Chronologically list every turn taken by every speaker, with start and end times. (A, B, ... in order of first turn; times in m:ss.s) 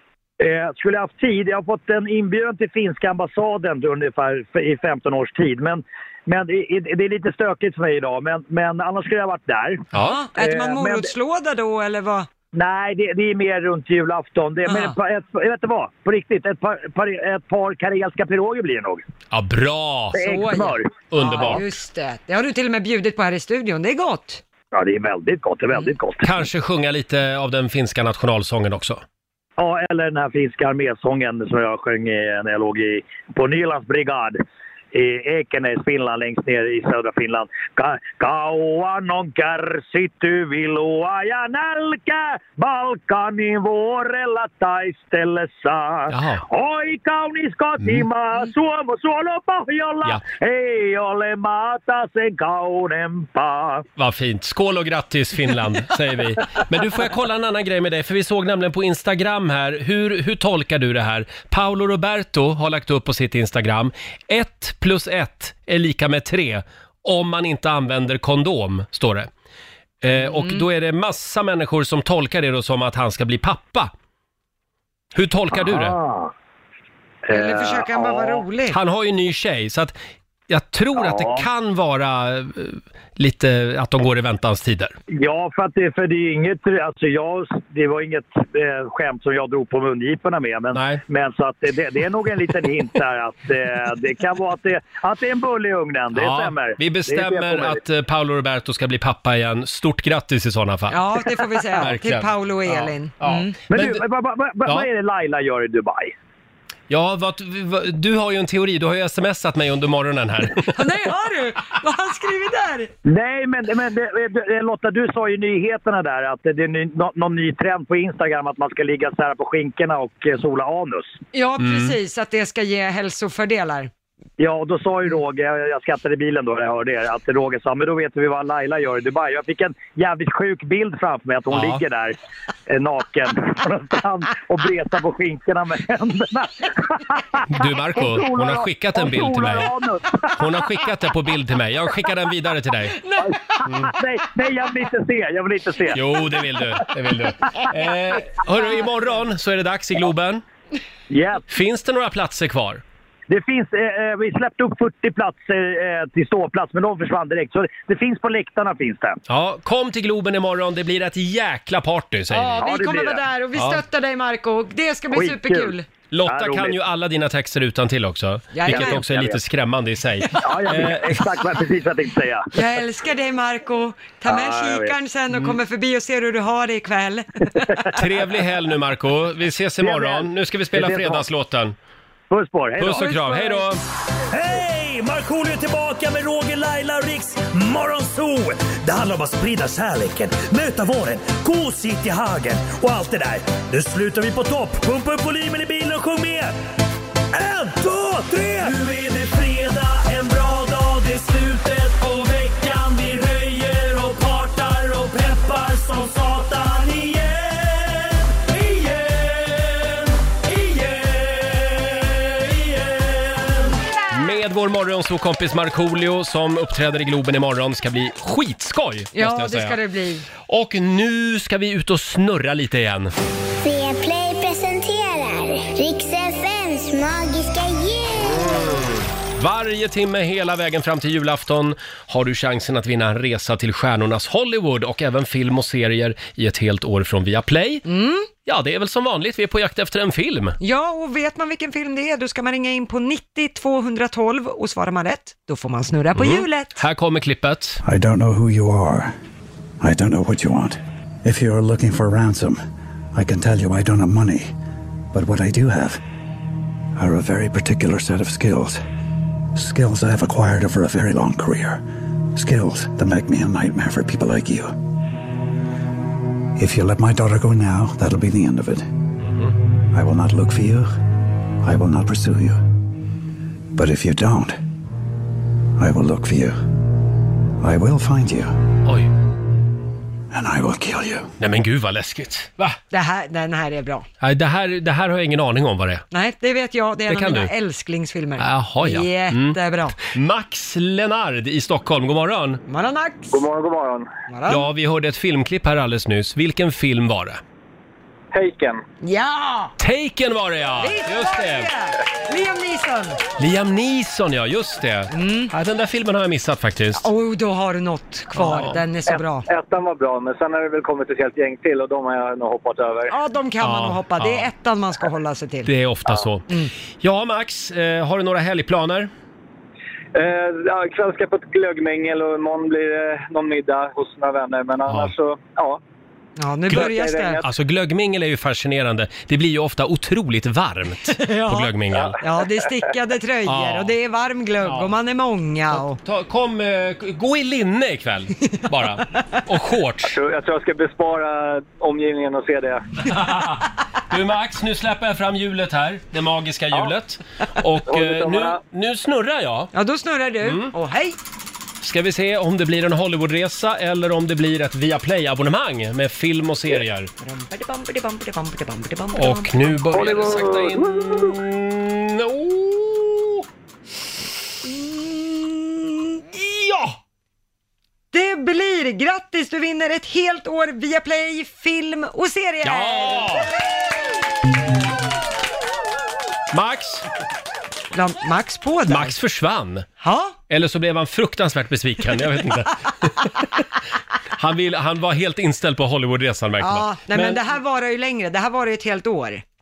0:00.4-0:11.1 A
0:09.9-0:10.2 B
0:09.9-0:12.3 C
0:12.5-0:19.0 A
0:14.7-0:15.0 C
0:19.3-0:20.3 B
0:20.1-0:21.6 A
0:20.2-0:24.4 C
0:21.1-0:21.8 B
0:24.7-0:26.4 A
0:26.2-0:29.0 B
0:29.6-0:34.4 A
0:34.9-0:53.8 A
0:46.1-0:46.5 B
0:47.8-0:48.1 B
0:54.0-1:09.3 B
1:10.0-1:13.9 B
1:10.1-1:10.6 C
1:15.2-1:16.0 B
1:15.5-1:16.3 A
1:17.3-1:18.4 A
1:17.3-1:18.8 C
1:18.7-1:20.0 B
1:20.5-1:24.9 B
1:20.9-1:21.5 A
1:25.1-1:37.8 A
1:30.7-1:31.0 B
1:36.1-1:44.0 B
1:40.9-1:43.6 C
1:43.7-1:46.1 A
1:46.9-1:50.8 B
1:50.7-1:52.9 C
1:53.0-2:01.2 A
2:01.3-2:03.9 C
2:01.6-2:02.0 B
2:04.4-2:12.2 A
2:11.5-2:11.8 B
2:12.7-2:20.6 A
2:17.5-2:19.7 B
2:20.4-2:23.0 B
2:22.9-2:23.6 C
2:23.2-2:26.2 A
2:23.6-2:23.9 B
2:25.9-2:30.4 B
2:31.1-2:31.4 A
2:31.5-2:32.8 B
2:33.3-2:39.2 A
2:39.3-2:42.7 B
2:42.3-2:45.9 C
2:42.6-2:43.2 A
2:43.5-2:43.8 B
2:45.1-2:46.8 A
2:46.1-2:51.4 B
2:48.5-2:49.1 C
2:48.7-2:49.4 A
2:50.3-2:52.6 A
2:52.6-2:57.3 C
2:54.3-2:55.0 A
2:55.3-2:55.6 B
2:57.6-2:58.0 A
2:58.0-3:01.8 B
2:59.8-3:01.2 A
3:02.3-3:03.7 A
3:02.8-3:03.8 B
3:04.3-3:16.6 D
3:17.3-3:33.8 D
3:34.1-3:39.8 B
3:39.2-3:40.3 C
3:40.5-3:43.1 B
3:43.6-3:48.8 E
3:48.2-3:57.9 B
3:57.9-3:58.3 C
3:58.4-4:00.6 B
4:00.6-4:06.8 C
4:06.1-4:07.8 B
4:07.8-4:09.1 F
4:09.8-4:12.6 F
4:13.1-4:14.5 F
4:15.1-4:16.0 F
4:17.0-4:18.8 F
4:19.6-4:21.8 F
4:22.3-4:24.7 F
4:26.6-4:28.9 F
4:29.2-4:29.6 B
4:29.9-4:30.9 F
4:31.6-4:32.6 F
4:33.8-4:34.6 F
4:35.8-4:36.6 F
4:37.6-4:38.5 F
4:40.3-4:41.3 F
4:41.4-4:42.8 B
4:42.9-4:44.1 C
4:44.2-4:46.0 B
4:46.1-4:50.0 C
4:47.1-4:47.5 B
4:48.4-4:52.6 B
4:52.7-4:53.4 C
4:53.3-4:54.1 G
4:54.3-4:54.7 C
4:54.5-4:57.4 B
4:58.3-4:58.8 G
4:59.0-4:59.7 C
4:59.8-5:01.7 B
5:00.8-5:03.2 C
5:03.4-5:07.1 B
5:05.1-5:05.5 C
5:07.0-5:09.5 C
5:08.3-5:08.8 B
5:09.1-5:13.1 G
5:13.1-5:15.7 C
5:13.6-5:14.5 B
5:15.6-5:16.5 B
5:17.0-5:19.1 B
5:20.2-5:25.8 G
5:24.9-5:25.1 B
5:26.4-5:27.4 C
5:26.7-5:32.2 B
5:26.7-5:27.4 G
5:31.1-5:36.0 C
5:33.5-5:34.0 B
5:34.6-5:34.9 B
5:35.7-5:40.2 B
5:40.1-5:42.8 G
5:43.1-5:49.7 B
5:47.9-5:48.6 G
5:49.7-5:51.2 C
5:50.4-5:50.7 B
5:51.8-5:57.1 B
5:57.2-5:59.6 C
5:59.1-6:03.4 B
6:00.0-6:00.6 G
6:04.7-6:05.9 C
6:06.3-6:07.0 B
6:08.1-6:13.4 C
6:12.6-6:13.5 B
6:16.5-6:17.0 B
6:17.9-6:19.2 C
6:18.9-6:19.9 B
6:20.0-6:20.4 C
6:20.5-6:23.5 B
6:24.4-6:27.4 B
6:26.6-6:29.4 C